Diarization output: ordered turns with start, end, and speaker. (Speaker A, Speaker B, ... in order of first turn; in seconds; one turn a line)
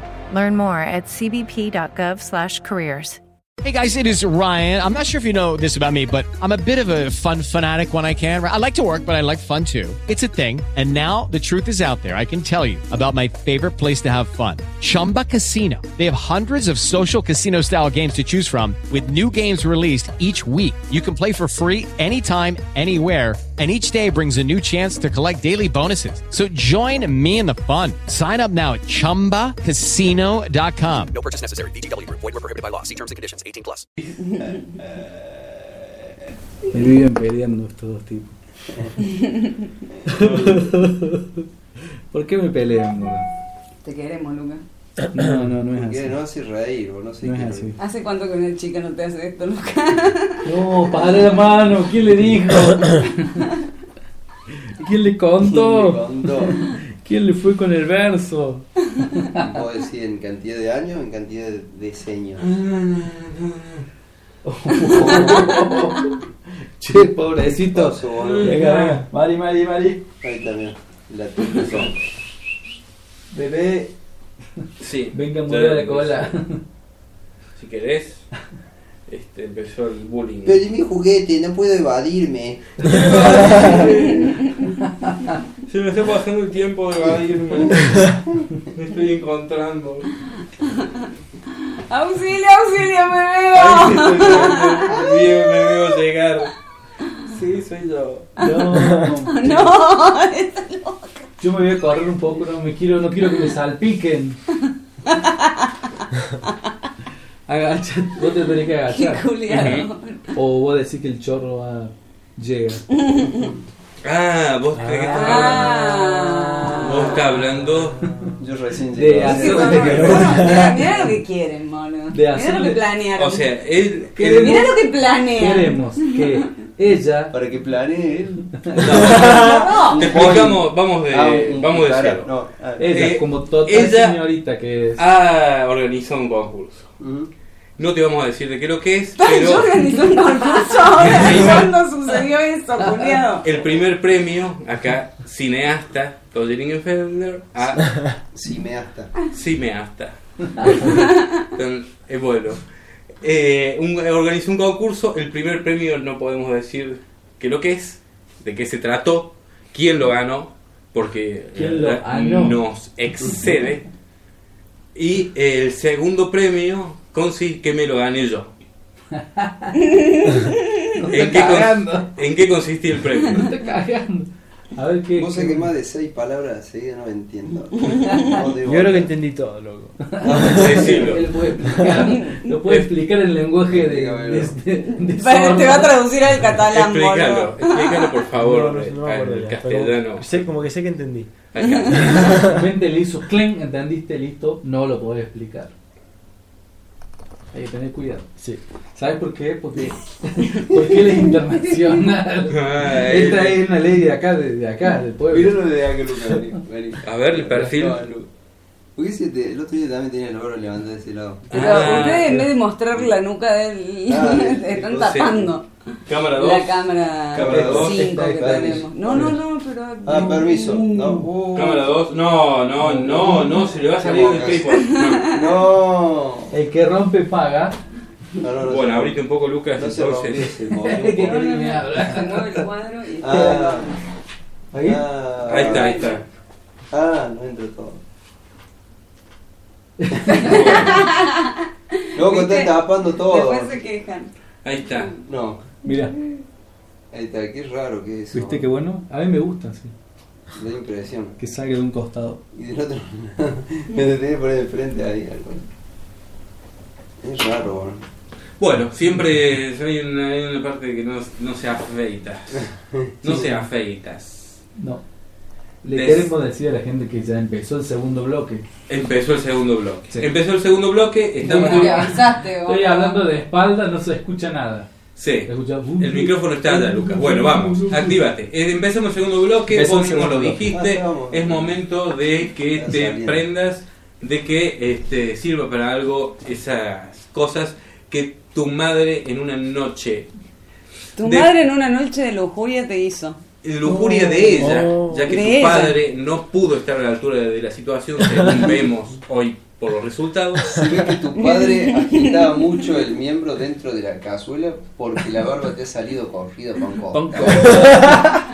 Speaker A: 0.3-3.2
Speaker B: 3.6-31.1
Speaker C: 31.1-33.9
Speaker D: 34.9-35.3
Speaker E: 36.7-38.4
Speaker E: 40.5-41.2
Speaker E: 42.1-43.3
Speaker F: 43.8-44.6
Speaker E: 45.1-46.1
Speaker D: 45.8-47.7
Speaker E: 47.2-47.8
Speaker F: 47.8-50.3
Speaker E: 50.5-53.3
Speaker E: 54.8-56.0
Speaker D: 55.5-56.6
Speaker E: 57.0-59.4
Speaker D: 59.4-62.5
Speaker G: 62.4-63.9
Speaker E: 64.5-66.1
Speaker E: 66.8-70.0
Speaker D: 67.4-68.6
Speaker G: 68.2-68.6
Speaker D: 70.2-72.0
Speaker G: 71.6-71.9
Speaker E: 73.3-73.9
Speaker G: 74.8-76.2
Speaker E: 75.1-76.6
Speaker G: 77.6-78.3
Speaker G: 79.1-80.6
Speaker D: 80.5-82.6
Speaker G: 82.8-84.3
Speaker E: 83.0-83.7
Speaker E: 85.0-85.3
Speaker G: 85.7-88.0
Speaker G: 88.8-90.1
Speaker F: 91.9-95.0
Speaker G: 93.5-96.5
Speaker G: 97.3-98.3
Speaker E: 98.4-99.7
Speaker F: 98.4-101.1
Speaker E: 101.4-104.4
Speaker F: 105.1-105.5
Speaker E: 107.5-109.8
Speaker F: 108.9-110.3
Speaker G: 109.5-109.9
Speaker E: 110.3-112.8
Speaker F: 112.9-113.5
Speaker G: 114.0-115.9
Speaker E: 114.8-117.1
Speaker F: 115.1-117.2
Speaker G: 116.8-118.0
Speaker D: 118.4-120.6
Speaker E: 119.0-121.1
Speaker F: 119.2-123.4
Speaker E: 122.1-122.8
Speaker G: 123.2-124.7
Speaker E: 124.2-124.7
Speaker F: 124.4-125.8
Speaker E: 125.4-127.3
Speaker D: 127.3-129.0
Speaker G: 128.8-132.3
Speaker F: 129.0-130.3
Speaker D: 129.9-132.9
Speaker E: 132.8-135.0
Speaker G: 132.9-134.2
Speaker G: 135.0-136.9
Speaker D: 137.0-137.3
Speaker G: 137.8-139.8
Speaker F: 139.2-143.4
Speaker G: 141.0-141.7
Speaker G: 143.4-147.9
Speaker D: 148.3-149.1
Speaker G: 149.3-152.6
Speaker F: 150.9-151.2
Speaker G: 153.2-163.8
Speaker E: 161.6-162.6
Speaker G: 164.9-168.5
Speaker E: 169.2-169.8
Speaker F: 169.9-170.6
Speaker E: 171.0-172.1
Speaker G: 171.1-173.4
Speaker E: 173.3-175.7
Speaker D: 175.2-179.1
Speaker F: 178.0-178.4
Speaker H: 178.6-180.2
Speaker E: 180.1-186.0
Speaker D: 180.3-181.1
Speaker G: 180.4-181.2
Speaker F: 182.1-182.4
Speaker D: 183.7-184.6
Speaker F: 185.2-188.1
Speaker G: 186.7-190.5
Speaker H: 188.4-191.3
Speaker G: 191.5-192.4
Speaker F: 191.6-192.2
Speaker E: 192.4-195.7
Speaker E: 197.5-198.4
Speaker E: 198.9-205.5
Speaker G: 202.5-203.6
Speaker D: 205.3-208.3
Speaker G: 207.0-208.0
Speaker D: 209.0-212.0
Speaker G: 211.5-212.4
Speaker F: 211.5-215.6
Speaker D: 214.1-215.5
Speaker G: 216.1-218.0
Speaker F: 216.3-221.2
Speaker D: 217.3-219.4
Speaker E: 217.4-219.3
Speaker D: 220.0-221.9
Speaker G: 221.5-225.3
Speaker E: 222.8-223.5
Speaker D: 224.0-224.7
Speaker D: 225.3-226.5
Speaker E: 226.5-227.8
Speaker D: 228.4-229.2
Speaker G: 228.7-230.5
Speaker D: 229.8-231.4
Speaker E: 230.8-232.6
Speaker F: 231.1-233.9
Speaker D: 233.2-233.9
Speaker E: 234.7-235.0
Speaker D: 234.8-236.2
Speaker G: 235.5-236.2
Speaker F: 235.8-236.1
Speaker D: 236.9-238.0
Speaker E: 240.0-240.5
Speaker G: 240.4-241.1
Speaker F: 240.5-241.5
Speaker D: 242.2-243.8
Speaker F: 242.2-244.3
Speaker G: 244.6-245.1
Speaker D: 245.3-245.6
Speaker E: 245.8-246.2
Speaker D: 247.1-248.6
Speaker E: 248.3-249.9
Speaker D: 250.5-251.4
Speaker E: 251.4-252.4
Speaker D: 252.5-255.6
Speaker D: 257.2-258.0
Speaker G: 258.6-262.7
Speaker D: 262.9-263.5
Speaker G: 263.2-264.6
Speaker E: 264.8-265.0
Speaker E: 265.8-268.6
Speaker G: 265.9-266.3
Speaker G: 268.9-272.1
Speaker F: 271.4-273.2
Speaker E: 271.4-274.9
Speaker G: 275.2-290.3
Speaker E: 275.5-278.2
Speaker E: 279.7-280.5
Speaker H: 279.8-280.6
Speaker D: 280.7-281.7
Speaker D: 282.8-283.4
Speaker F: 291.2-293.4
Speaker G: 291.2-291.5
Speaker G: 293.6-300.8
Speaker H: 293.9-295.2
Speaker F: 295.3-296.0
Speaker D: 300.7-308.3
Speaker F: 301.4-302.5
Speaker E: 307.1-308.2